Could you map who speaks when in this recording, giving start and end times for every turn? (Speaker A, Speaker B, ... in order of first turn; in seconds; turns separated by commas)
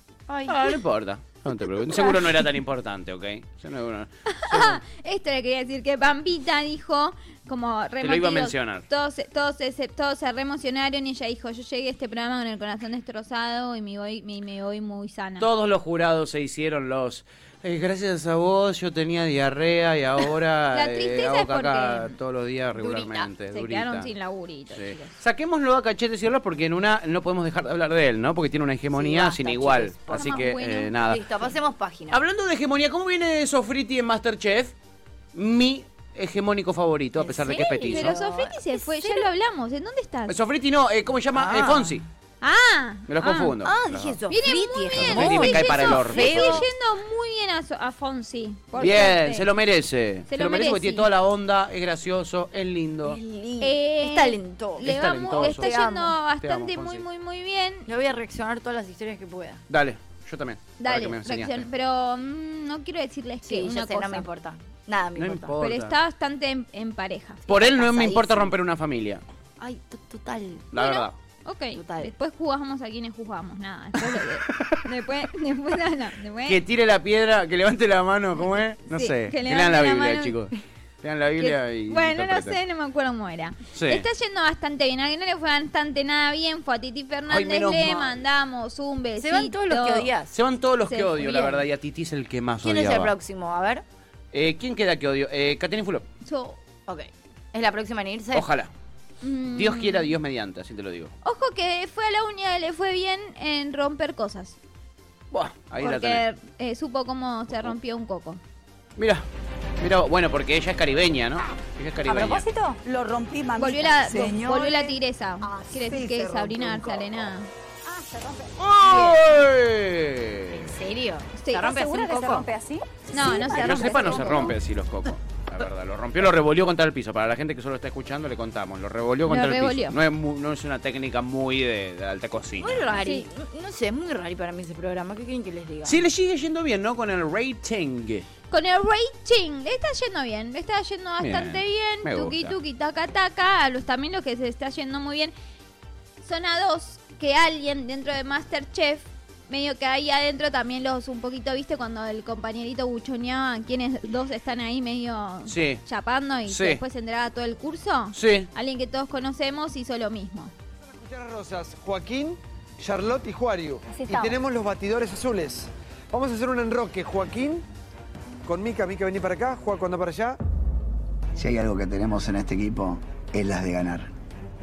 Speaker A: 0.3-0.6, Speaker B: 0.5-4.8, Speaker C: 4.3-15.4, Speaker B: 8.0-8.8, Speaker B: 15.4-24.1, Speaker C: 20.7-22.1, Speaker C: 22.8-25.1, Speaker B: 24.7-31.2, Speaker A: 28.9-30.4, Speaker C: 30.1-30.9, Speaker A: 31.0-32.2, Speaker B: 32.1-34.7, Speaker B: 35.3-38.1, Speaker A: 37.2-39.3, Speaker C: 37.9-40.4, Speaker B: 40.3-42.0, Speaker A: 41.3-42.0, Speaker C: 42.4-43.5, Speaker B: 43.1-44.2, Speaker A: 43.6-46.7, Speaker C: 44.3-49.5, Speaker B: 44.9-46.6, Speaker B: 48.8-53.2, Speaker C: 50.3-51.1, Speaker A: 53.0-56.1, Speaker C: 53.6-57.9, Speaker B: 54.8-55.8, Speaker B: 56.4-57.0, Speaker A: 57.9-59.6, Speaker B: 59.7-61.6, Speaker C: 60.8-64.3, Speaker A: 63.4-65.5, Speaker B: 65.2-66.0, Speaker C: 65.6-67.4, Speaker A: 67.5-68.5, Speaker B: 67.5-69.2, Speaker A: 69.6-70.7, Speaker B: 70.7-71.2, Speaker C: 70.7-76.6, Speaker A: 71.7-72.1, Speaker B: 74.5-74.8, Speaker B: 76.5-82.6, Speaker C: 78.9-80.3, Speaker C: 81.4-90.1, Speaker B: 83.7-84.0, Speaker B: 87.3-88.2, Speaker A: 89.2-90.3, Speaker B: 90.3-93.1, Speaker C: 90.9-91.6, Speaker A: 92.6-93.8, Speaker B: 94.3-96.0, Speaker C: 96.2-96.6, Speaker A: 96.9-98.5, Speaker B: 98.3-98.7, Speaker C: 99.2-100.1, Speaker B: 99.5-101.1, Speaker C: 101.2-104.6, Speaker B: 105.3-106.2, Speaker C: 105.8-108.4, Speaker B: 109.0-109.2, Speaker B: 109.8-112.5, Speaker A: 112.1-112.5, Speaker D: 112.3-117.1, Speaker C: 113.6-117.5, Speaker A: 114.0-114.4, Speaker D: 117.9-118.5, Speaker B: 118.6-120.7, Speaker A: 120.5-122.5, Speaker C: 121.4-121.8, Speaker D: 121.7-123.6, Speaker C: 123.1-124.5, Speaker B: 123.5-133.0, Speaker A: 123.5-124.5, Speaker C: 129.3-129.9, Speaker A: 132.6-136.0, Speaker B: 135.8-138.2, Speaker C: 138.5-145.3, Speaker B: 141.2-142.5, Speaker C: 146.2-160.5, Speaker B: 155.4-155.8, Speaker B: 156.5-156.8, Speaker B: 158.1-158.5, Speaker E: 160.9-167.6, Speaker E: 168.4-170.4, Speaker F: 171.3-174.1